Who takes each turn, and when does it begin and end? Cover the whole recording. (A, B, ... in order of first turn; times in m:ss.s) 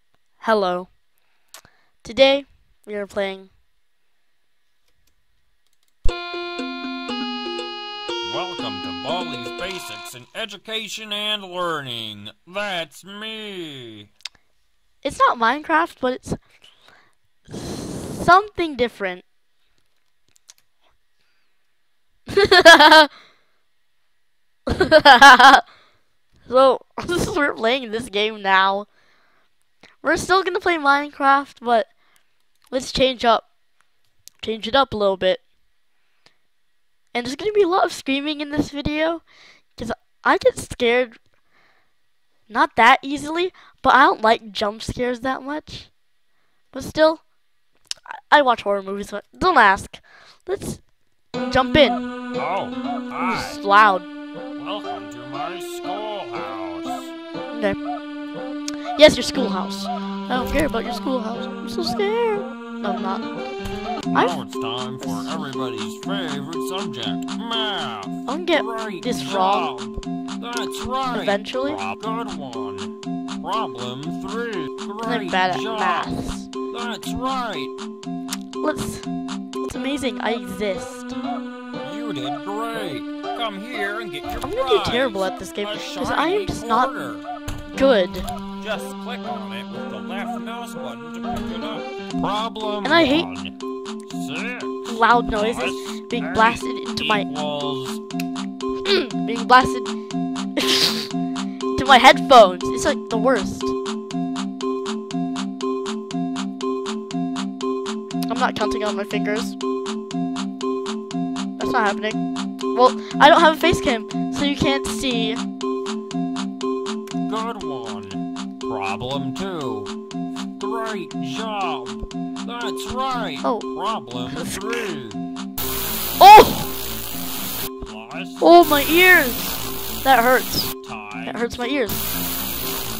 0:00.4-0:00.9 A
0:02.0-0:03.5 A
0:08.2-0:14.1 B
0:15.0-0:16.4 A
0:17.5-0:19.2 A
0:22.3-0:23.1 A
0:24.7-0:25.6 A
0:26.4-0:28.9 A
0:30.0-0:31.9 A
0:32.7-0:33.4 A
0:34.4-0:35.4 A
0:37.1-0:39.2 A
0:39.8-0:41.2 A
0:42.5-0:45.9 A
0:46.7-0:47.2 A
0:48.1-0:50.8 A
0:51.4-0:52.0 A
0:52.3-0:53.6 B
0:53.2-0:54.1 A
0:54.6-0:57.1 B
0:57.5-0:57.8 A
0:59.0-1:03.3 A
1:04.1-1:16.1 B
1:05.0-1:05.4 A
1:08.3-1:09.7 A
1:11.1-1:11.8 A
1:15.0-1:16.5 A
1:16.7-1:17.7 B
1:18.6-1:19.1 A
1:19.6-1:21.1 A
1:21.8-1:27.2 B
1:24.4-1:26.9 A
1:27.8-1:28.3 A
1:28.6-1:33.5 B
1:32.8-1:33.3 A
1:34.0-1:38.0 B
1:34.9-1:37.3 A
1:38.8-1:39.9 A
1:40.6-1:41.1 A
1:41.7-1:43.7 A
1:48.3-1:49.6 A
1:51.6-1:52.2 A
1:52.7-1:55.4 A
1:57.3-1:59.9 B
2:00.6-2:05.2 B
2:04.3-2:04.8 A
2:06.2-2:06.7 A
2:07.8-2:08.5 B
2:08.4-2:10.7 A
2:10.8-2:11.6 B
2:11.2-2:12.0 A